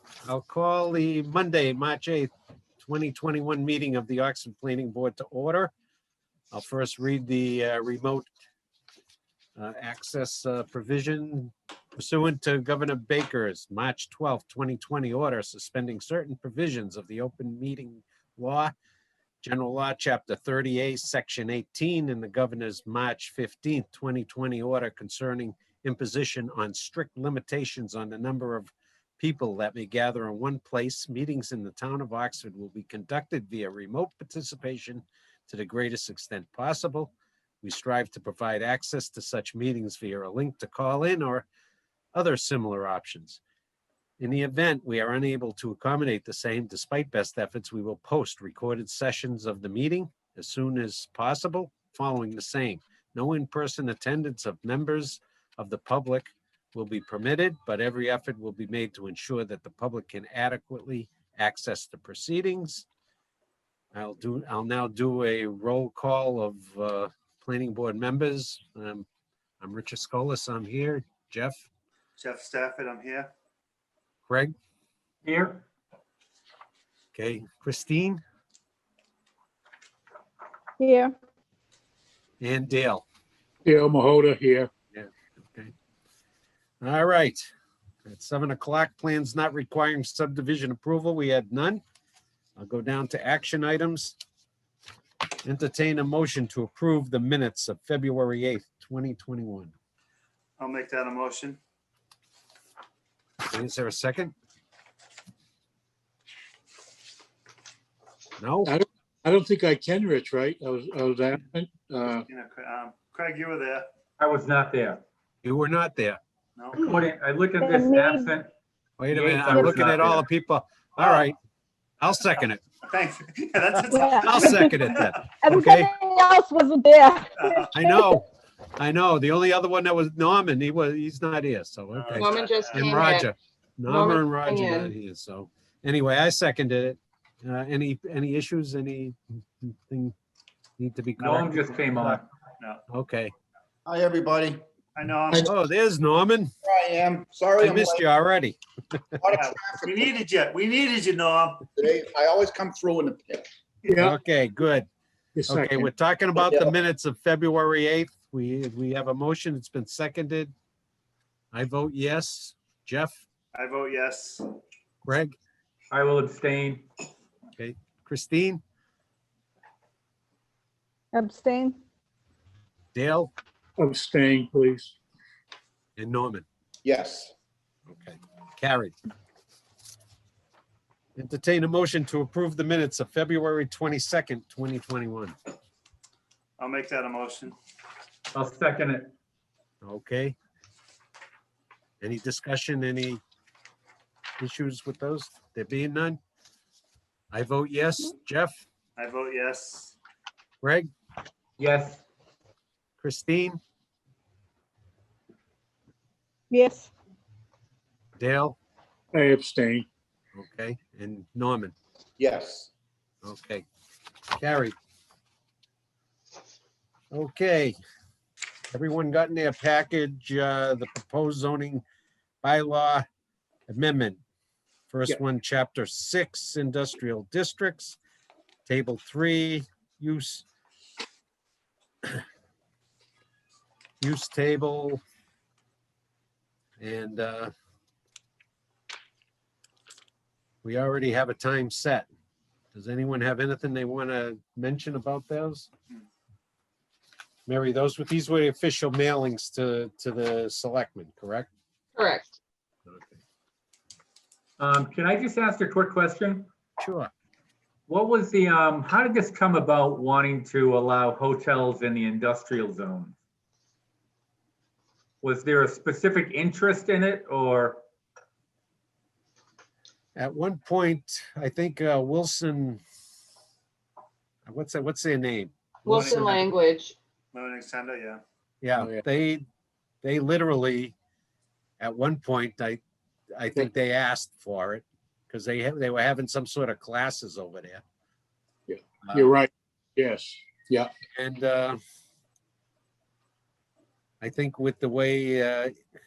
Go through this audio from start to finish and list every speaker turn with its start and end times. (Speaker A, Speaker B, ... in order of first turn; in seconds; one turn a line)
Speaker A: 0.3-5.7
Speaker A: 6.5-8.3
Speaker A: 9.6-18.7
Speaker A: 19.4-37.1
Speaker A: 37.6-41.5
Speaker A: 42.1-43.4
Speaker A: 44.2-62.9
Speaker A: 63.9-69.1
Speaker A: 69.6-71.7
Speaker B: 72.2-73.3
Speaker A: 74.3-74.5
Speaker C: 75.2-75.6
Speaker A: 77.1-78.2
Speaker D: 80.8-81.1
Speaker A: 82.4-83.0
Speaker E: 83.7-84.7
Speaker A: 84.9-85.7
Speaker A: 86.8-87.5
Speaker A: 88.0-91.8
Speaker A: 92.6-94.2
Speaker A: 95.4-99.7
Speaker B: 100.6-101.6
Speaker A: 103.5-104.3
Speaker A: 108.4-108.7
Speaker E: 108.6-112.2
Speaker B: 112.3-113.9
Speaker C: 114.2-115.0
Speaker A: 115.4-116.2
Speaker B: 116.6-117.0
Speaker C: 116.8-118.5
Speaker D: 117.6-118.3
Speaker A: 119.0-121.4
Speaker C: 119.1-120.3
Speaker D: 119.5-119.8
Speaker B: 121.0-121.3
Speaker A: 122.0-122.6
Speaker B: 122.9-125.2
Speaker D: 123.9-128.1
Speaker A: 124.2-125.9
Speaker B: 127.4-127.7
Speaker A: 127.7-128.2
Speaker A: 128.8-140.2
Speaker B: 131.9-133.1
Speaker F: 132.2-133.3
Speaker F: 133.9-134.9
Speaker A: 140.8-141.5
Speaker B: 141.2-142.8
Speaker C: 141.2-142.2
Speaker A: 142.9-143.3
Speaker G: 143.9-144.6
Speaker B: 144.9-145.5
Speaker A: 145.4-146.5
Speaker G: 146.6-148.1
Speaker A: 147.6-148.6
Speaker G: 149.2-150.1
Speaker B: 149.3-151.7
Speaker G: 151.7-153.5
Speaker E: 153.9-154.2
Speaker A: 154.0-154.9
Speaker E: 155.3-155.9
Speaker A: 155.5-160.5
Speaker G: 156.4-156.7
Speaker A: 161.5-163.2
Speaker B: 163.5-164.5
Speaker A: 165.1-165.4
Speaker C: 165.9-166.9
Speaker A: 167.6-168.6
Speaker D: 171.1-171.8
Speaker A: 172.9-173.3
Speaker E: 173.8-175.0
Speaker A: 176.0-176.5
Speaker G: 176.8-177.3
Speaker A: 177.9-179.0
Speaker A: 181.2-185.4
Speaker B: 186.6-187.6
Speaker C: 188.3-189.1
Speaker A: 189.8-190.4
Speaker A: 192.0-193.2
Speaker A: 194.4-196.2
Speaker A: 197.3-198.6
Speaker B: 199.0-200.0
Speaker A: 200.6-200.9
Speaker C: 201.6-202.0
Speaker A: 203.0-203.6
Speaker D: 206.5-206.9
Speaker A: 208.2-208.6
Speaker E: 209.1-209.9
Speaker A: 210.3-211.8
Speaker G: 212.2-212.7
Speaker A: 213.2-213.7
Speaker A: 214.4-214.8
Speaker A: 217.1-217.8
Speaker A: 218.7-221.8
Speaker A: 222.4-223.1
Speaker A: 223.7-224.2
Speaker A: 224.9-228.0
Speaker A: 228.7-230.5
Speaker A: 234.0-235.0
Speaker A: 236.8-237.5
Speaker A: 240.6-242.1
Speaker A: 242.7-245.7
Speaker A: 247.5-251.5
Speaker F: 252.0-252.4
Speaker A: 252.9-253.2
Speaker C: 254.6-256.5
Speaker A: 256.8-257.1
Speaker C: 257.9-263.2
Speaker C: 265.2-267.8
Speaker A: 270.2-272.8
Speaker A: 274.5-276.4
Speaker B: 275.9-276.5
Speaker F: 275.9-277.0
Speaker B: 277.3-278.2
Speaker A: 278.6-279.5
Speaker E: 278.8-279.0
Speaker A: 280.0-280.9
Speaker A: 281.8-282.8
Speaker A: 283.4-287.8
Speaker E: 288.7-290.9
Speaker A: 289.0-289.3
Speaker A: 291.1-291.8
Speaker A: 294.2-295.7